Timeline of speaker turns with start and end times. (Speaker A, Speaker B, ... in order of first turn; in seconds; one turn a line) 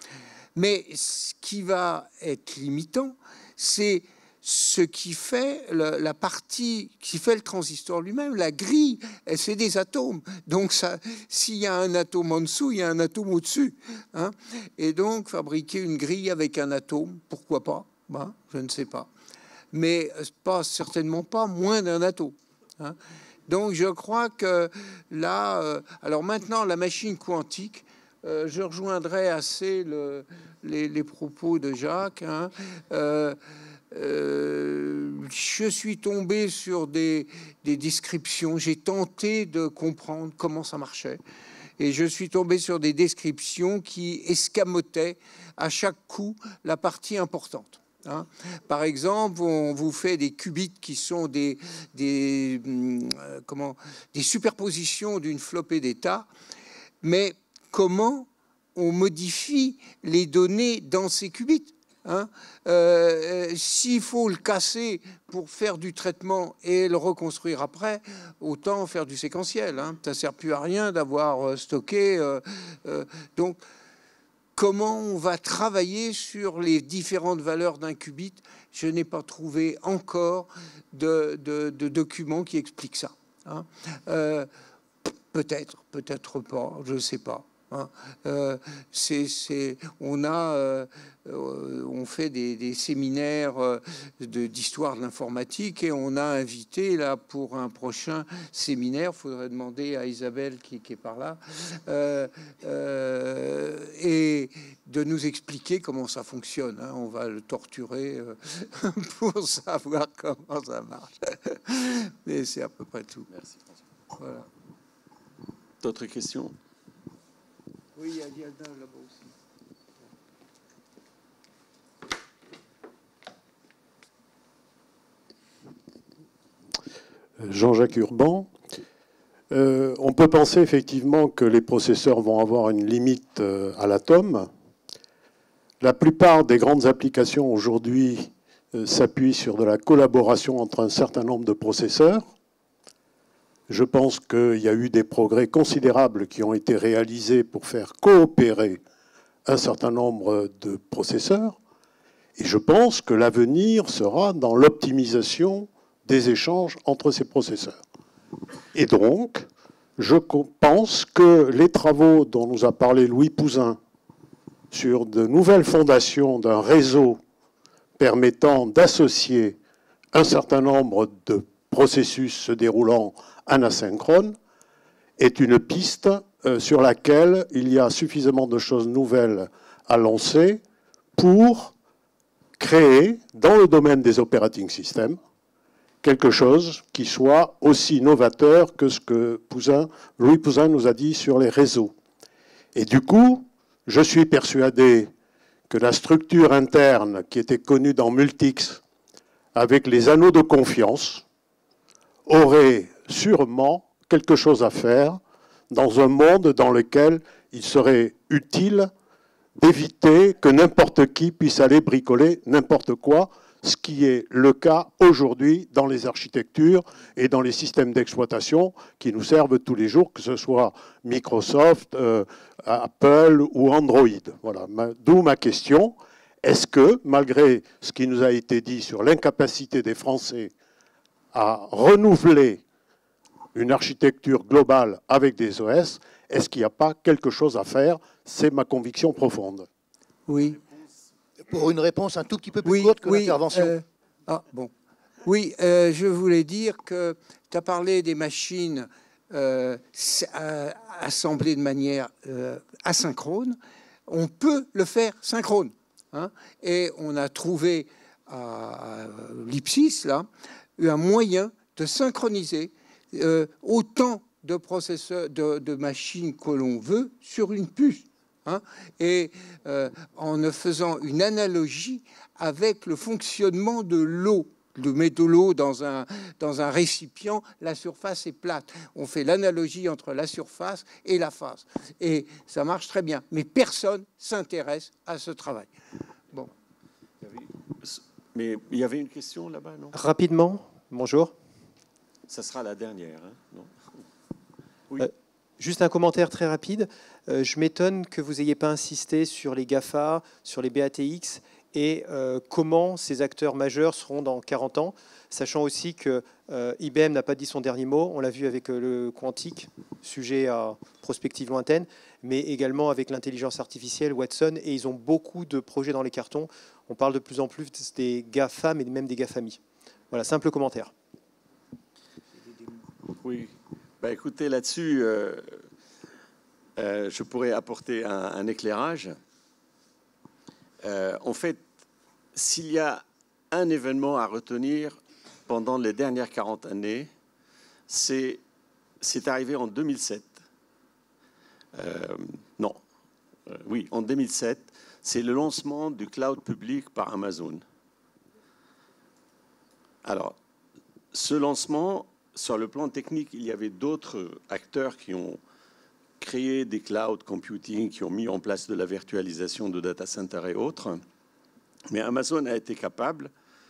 Speaker A: 0.6-19.1
Speaker A: 19.7-33.4
Speaker A: 33.9-41.2
Speaker A: 41.8-56.3
Speaker A: 57.0-73.6
Speaker A: 74.6-84.5
Speaker A: 85.0-113.3
Speaker B: 113.3-113.8
Speaker A: 114.2-114.5
Speaker B: 115.8-116.5
Speaker A: 118.0-119.3
Speaker C: 127.4-128.5
Speaker C: 129.5-134.5
Speaker C: 135.8-142.3
Speaker C: 143.7-148.8
Speaker C: 149.5-151.6
Speaker C: 152.4-157.8
Speaker C: 158.7-159.5
Speaker C: 160.0-163.8
Speaker C: 164.7-167.2
Speaker C: 168.0-169.6
Speaker C: 170.1-174.4
Speaker C: 175.2-180.6
Speaker C: 181.2-181.7
Speaker C: 182.6-185.2
Speaker C: 186.0-191.9
Speaker C: 192.8-195.1
Speaker C: 195.7-198.8
Speaker C: 199.6-201.2
Speaker C: 202.3-208.9
Speaker C: 209.6-230.5
Speaker C: 231.3-232.6
Speaker C: 233.5-239.7
Speaker A: 240.3-240.6
Speaker D: 241.5-243.8
Speaker A: 242.7-244.7
Speaker A: 245.2-285.7
Speaker B: 287.2-289.9
Speaker E: 289.9-291.3
Speaker B: 292.3-293.8
Speaker E: 295.0-320.9
Speaker B: 323.1-325.6
Speaker B: 326.8-329.2
Speaker B: 330.8-331.6
Speaker B: 332.4-337.1
Speaker B: 337.9-338.4
Speaker B: 339.0-340.4
Speaker B: 341.8-342.8
Speaker B: 343.5-347.6
Speaker B: 350.0-350.4
Speaker B: 351.1-355.4
Speaker B: 356.2-361.0
Speaker B: 361.9-363.3